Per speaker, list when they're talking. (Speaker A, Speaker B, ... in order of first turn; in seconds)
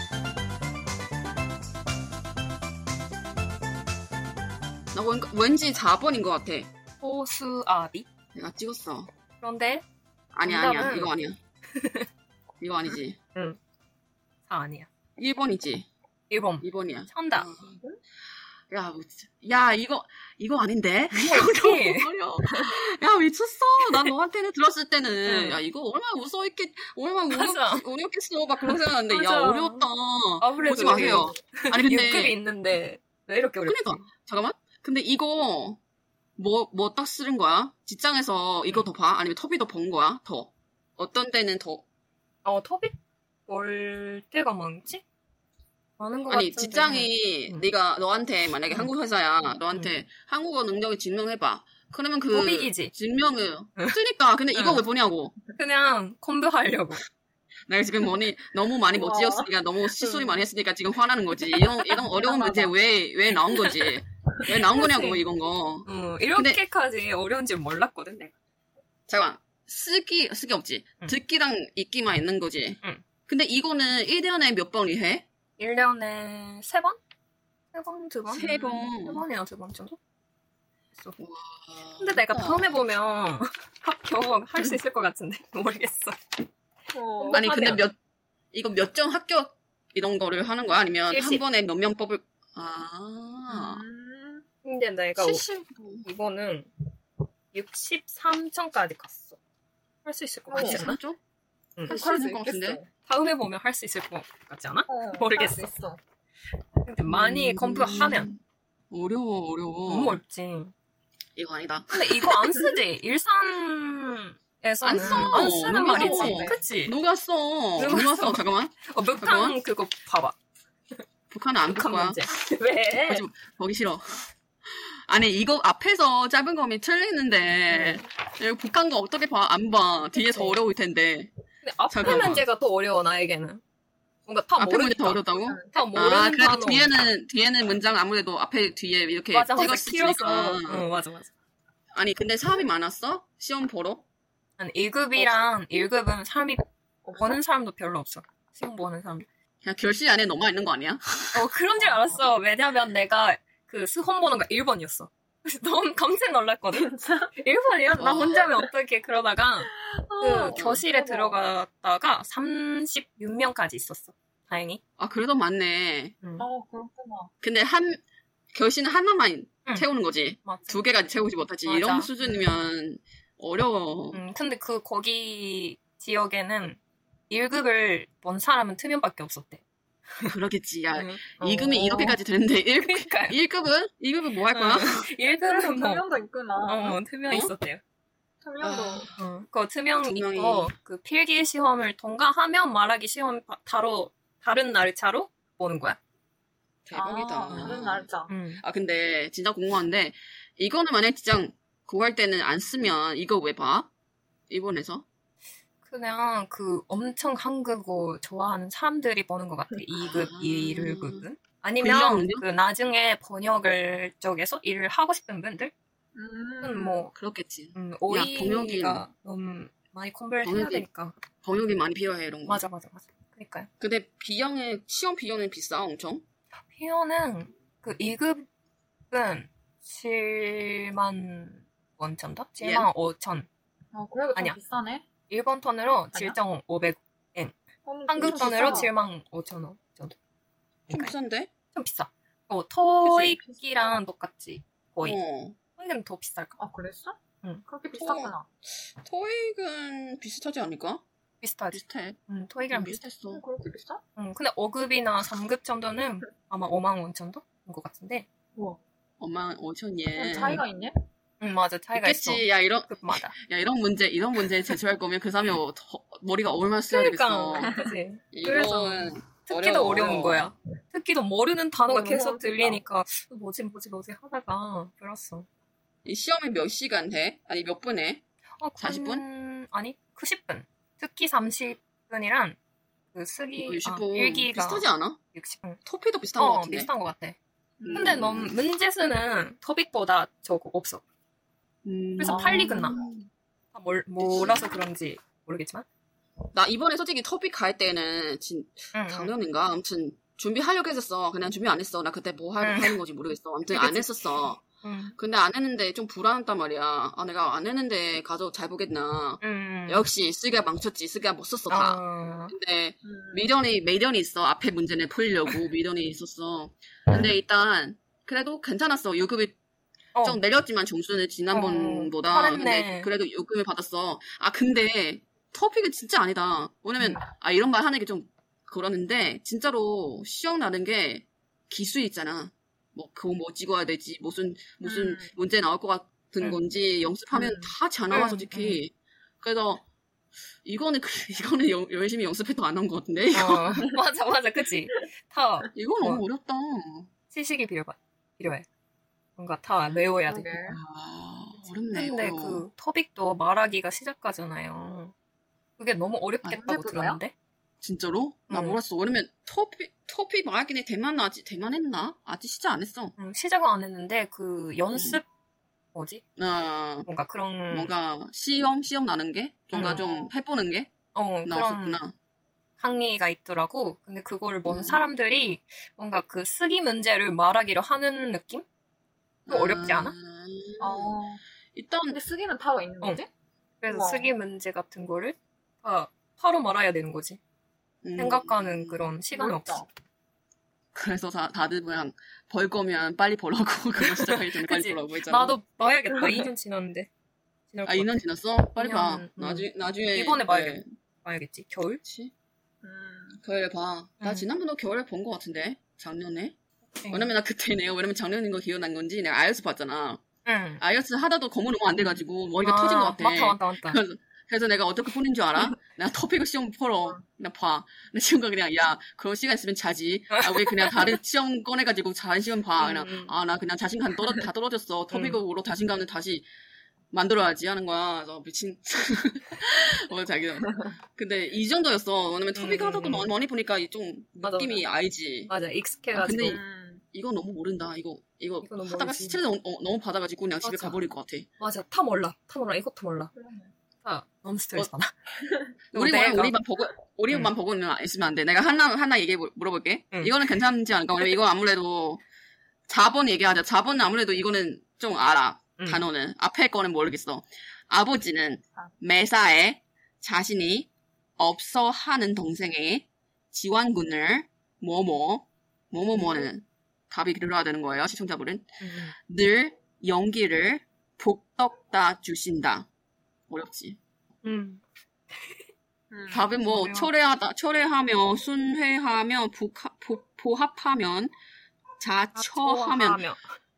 Speaker A: 4.9-6.7, 8.3-9.1, 10.3-11.4, 12.6-13.2, 15.2-15.9, 16.6-17.8, 18.7-32.4, 33.6-35.8, 36.4-41.8, 46.3-55.4, 57.7-66.6, 69.1-75.3, 78.3-79.2, 81.2-82.8, 87.3-88.0, 88.5-93.8, 95.2-96.1, 100.5-101.2, 101.9-102.8, 107.1-108.4, 108.9-110.2, 111.4-112.5, 114.8-119.6, 121.3-122.3, 123.1-131.3, 131.9-132.4, 134.6-140.9, 141.9-144.0, 149.6-151.5, 158.0-158.5, 160.5-160.8, 165.0-166.2, 167.4-168.0, 168.5-174.2, 180.3-185.1, 188.6-189.2, 190.0-190.7, 196.9-198.1, 198.6-203.9, 204.5-205.1, 210.0-211.3, 211.8-212.5, 217.1-219.1, 220.4-220.9, 221.4-222.6, 223.8-226.2, 232.6-232.9, 238.2-238.9, 240.9-241.5, 243.0-243.4, 245.0-245.6, 247.9-248.3, 248.9-251.0, 251.7-252.2, 252.7-253.4, 259.2-260.6, 261.9-267.8, 268.3-270.5, 276.1-278.2, 278.8-279.2, 283.6-285.2, 285.9-286.9, 287.8-288.6, 291.9-293.3, 294.2-294.8, 296.5-304.6, 305.2-319.6, 320.2-339.8, 340.6-343.8, 345.8-347.1, 350.7-352.7, 357.8-363.1, 364.9-365.2, 366.4-367.1, 367.7-370.9, 371.4-372.1, 374.6-375.1, 379.5-381.2, 381.7-382.2, 388.0-389.1, 390.9-395.6, 397.9-400.9, 402.0-402.3, 403.4-406.6, 407.1-410.2, 410.8-426.5, 427.1-435.5, 436.1-436.6, 437.1-441.5, 445.9-452.2, 452.9-472.9, 473.5-474.0, 476.3-481.3, 482.0-483.2
Speaker B: 7.0-8.1, 9.4-9.8, 10.4-11.1, 11.7-12.1, 12.9-13.6, 14.5-14.9, 16.3-17.5, 21.1-22.8, 25.2-25.6, 27.3-27.9, 28.6-29.9, 30.4-34.1, 42.5-43.0, 43.5-45.0, 46.0-47.6, 52.3-52.9, 54.5-54.9, 55.6-57.0, 60.0-60.5, 61.9-62.6, 64.7-65.2, 65.8-68.3, 75.6-77.0, 77.7-80.0, 82.0-86.2, 87.2-87.8, 91.1-91.4, 94.6-95.4, 96.0-96.7, 97.5-99.4, 100.0-101.0, 103.1-105.6, 106.8-108.3, 109.9-110.7, 111.9-117.0, 117.8-120.4, 121.7-123.3, 127.7-128.0, 130.1-130.6, 131.6-133.6, 134.3-136.9, 139.3-141.3, 144.6-146.7, 147.2-149.3, 151.3-164.8, 166.2-166.5, 170.4-170.8, 171.7-172.1, 174.1-176.8, 177.3-179.6, 180.9-182.2, 182.8-183.4, 184.5-186.0, 186.7-187.8, 189.2-196.0, 197.5-198.6, 205.8-215.7, 216.6-217.1, 217.7-221.1, 222.5-223.7, 226.7-228.5, 229.1-233.5, 235.3-240.2, 240.9-241.2, 241.7-245.2, 245.8-246.6, 251.4-253.0, 254.2-258.3, 260.4-260.6, 261.4-263.4, 266.9-275.5, 278.6-282.6, 283.1-285.8, 286.4-287.4, 287.9-291.0, 292.2-293.0, 293.7-295.9, 298.9-299.3, 302.6-303.0, 303.7-305.2, 309.4-310.1, 311.7-312.5, 320.1-320.4, 321.5-323.1, 338.1-338.8, 343.3-346.2, 347.3-348.7, 349.4-350.6, 351.9-355.1, 355.8-357.3, 358.5-358.8, 363.2-365.3, 365.9-366.2, 367.1-367.9, 369.7-370.0, 371.1-372.0, 372.8-378.6, 379.5-380.1, 383.8-387.4, 388.1-389.9, 394.0-397.1, 397.7-398.2, 398.8-402.0, 407.0-407.3, 410.4-410.8, 412.6-414.0, 420.3-421.2, 422.8-423.4, 425.1-425.4, 432.6-433.3, 434.4-434.9, 435.5-436.6, 438.6-439.4, 440.6-441.0, 441.6-443.3, 444.0-445.1, 445.9-446.6, 455.8-456.1, 468.8-469.1, 474.4-475.7, 476.6-477.1, 482.4-483.5
Speaker C: 58.9-59.5, 62.2-62.7, 86.9-87.7, 93.5-94.4, 100.5-100.9, 101.9-102.9, 104.9-106.0, 115.0-116.6, 135.4-135.8, 147.1-147.4, 151.8-152.2, 156.7-157.3, 158.2-158.7, 159.7-161.4, 166.4-167.3, 185.3-187.4, 188.4-189.2, 196.9-198.3, 216.2-217.0, 233.9-235.1, 236.1-236.4, 237.9-238.9, 246.6-248.5, 253.3-254.0, 260.2-260.9, 267.6-267.9, 271.9-272.8, 287.8-288.2, 292.2-293.0, 313.0-313.5, 334.8-335.4, 337.3-337.7, 350.3-350.8, 356.6-357.2, 369.9-370.3, 380.8-381.4, 382.1-383.3, 383.9-384.3, 389.3-389.9, 396.1-396.5, 402.8-403.4, 436.5-437.0, 443.4-443.7, 445.4-445.7, 476.1-476.5